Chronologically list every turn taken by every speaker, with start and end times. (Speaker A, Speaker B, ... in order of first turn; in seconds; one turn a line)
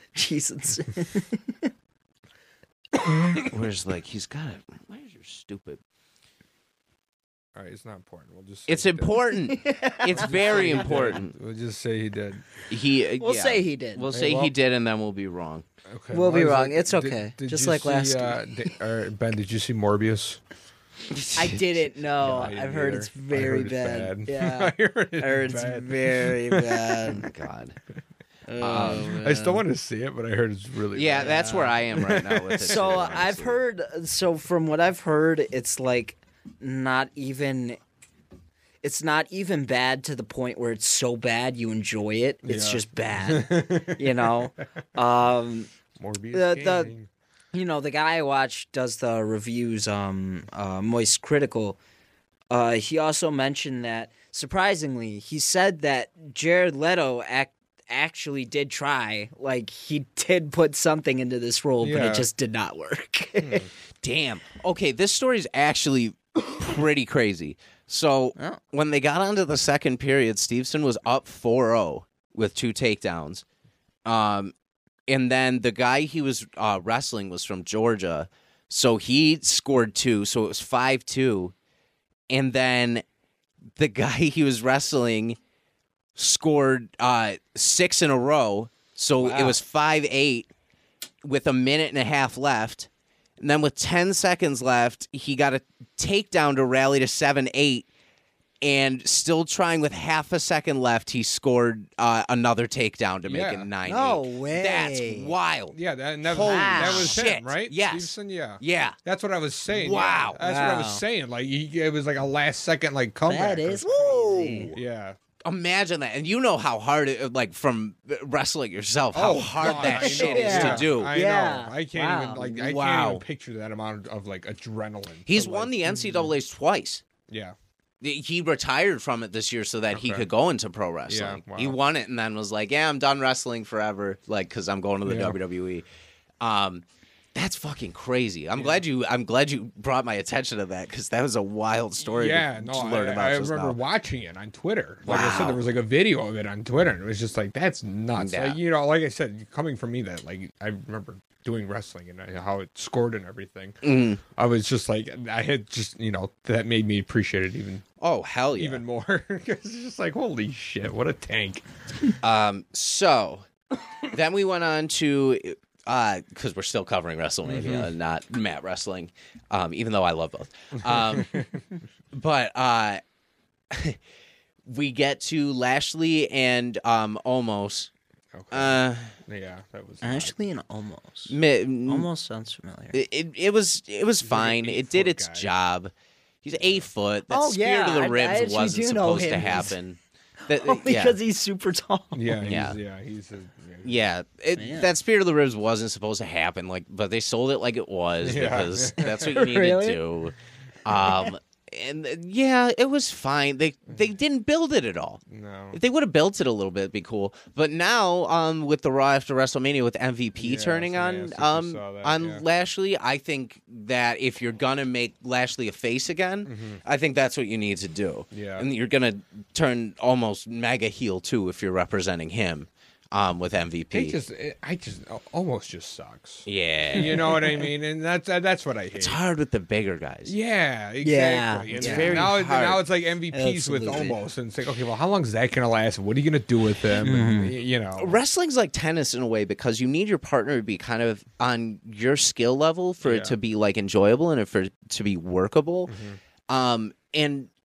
Speaker A: 0.1-1.7
Speaker B: 3.0-3.5
Speaker C: 3.4-5.8
Speaker B: 7.5-9.2
Speaker C: 8.7-11.3
Speaker A: 9.5-10.8
Speaker B: 10.1-12.5
Speaker C: 12.7-15.7
Speaker A: 13.2-14.2
Speaker B: 14.1-14.5
Speaker B: 15.9-20.4
Speaker A: 16.1-18.5
Speaker C: 21.1-21.6
Speaker A: 21.3-27.3
Speaker B: 22.2-27.2
Speaker C: 27.1-27.8
Speaker A: 28.5-29.6
Speaker C: 28.6-29.1
Speaker B: 28.7-33.2
Speaker C: 30.9-33.6
Speaker A: 31.1-31.7
Speaker A: 32.6-37.8
Speaker A: 38.8-45.7
Speaker B: 42.4-44.5
Speaker B: 46.0-47.1
Speaker A: 46.3-46.9
Speaker A: 47.5-51.8
Speaker A: 52.5-63.7
Speaker B: 61.8-62.3
Speaker B: 63.4-63.7
Speaker C: 64.0-73.4
Speaker C: 74.0-74.5
Speaker C: 75.1-81.5
Speaker C: 82.3-83.0
Speaker C: 83.8-85.4
Speaker C: 86.2-90.5
Speaker A: 89.2-89.6
Speaker C: 91.2-97.8
Speaker C: 98.6-105.7
Speaker B: 103.3-103.7
Speaker A: 103.8-105.3
Speaker B: 105.7-114.1
Speaker C: 106.3-109.0
Speaker A: 106.3-107.2
Speaker C: 109.7-110.4
Speaker A: 110.4-111.0
Speaker A: 113.3-114.7
Speaker C: 114.1-114.8
Speaker B: 114.7-115.2
Speaker C: 115.4-121.1
Speaker B: 119.1-126.0
Speaker A: 119.6-122.5
Speaker C: 122.5-123.2
Speaker C: 125.3-127.0
Speaker B: 127.3-127.5
Speaker C: 128.0-135.8
Speaker B: 129.9-130.3
Speaker B: 131.1-131.8
Speaker B: 135.0-135.4
Speaker C: 136.4-136.8
Speaker C: 137.3-143.8
Speaker B: 138.5-138.8
Speaker B: 142.0-157.8
Speaker C: 145.0-145.6
Speaker C: 148.2-148.6
Speaker C: 153.8-154.2
Speaker C: 158.0-158.8
Speaker B: 158.6-162.1
Speaker C: 162.2-163.4
Speaker C: 164.0-171.3
Speaker B: 167.5-167.9
Speaker B: 170.8-171.6
Speaker C: 172.1-173.0
Speaker C: 173.7-174.0
Speaker C: 174.7-177.9
Speaker B: 178.3-180.3
Speaker C: 178.5-179.1
Speaker A: 180.0-181.3
Speaker C: 181.3-182.1
Speaker A: 181.9-183.0
Speaker C: 182.9-185.9
Speaker B: 184.2-185.5
Speaker C: 186.4-191.2
Speaker B: 186.6-186.9
Speaker A: 187.3-189.7
Speaker A: 190.5-192.4
Speaker B: 192.1-194.1
Speaker C: 192.4-192.8
Speaker C: 193.8-205.2
Speaker A: 194.6-194.9
Speaker B: 198.2-199.2
Speaker A: 199.2-200.0
Speaker B: 205.3-205.8
Speaker C: 205.7-224.2
Speaker B: 210.4-212.4
Speaker B: 216.4-216.8
Speaker B: 218.3-218.7
Speaker B: 223.9-229.2
Speaker C: 226.4-227.4
Speaker A: 226.9-227.6
Speaker C: 229.0-230.3
Speaker B: 230.2-238.2
Speaker A: 231.0-232.2
Speaker C: 231.7-232.8
Speaker A: 233.3-234.2
Speaker A: 237.0-237.5
Speaker C: 238.0-245.9
Speaker B: 243.0-243.3
Speaker B: 245.9-246.2
Speaker C: 246.5-247.5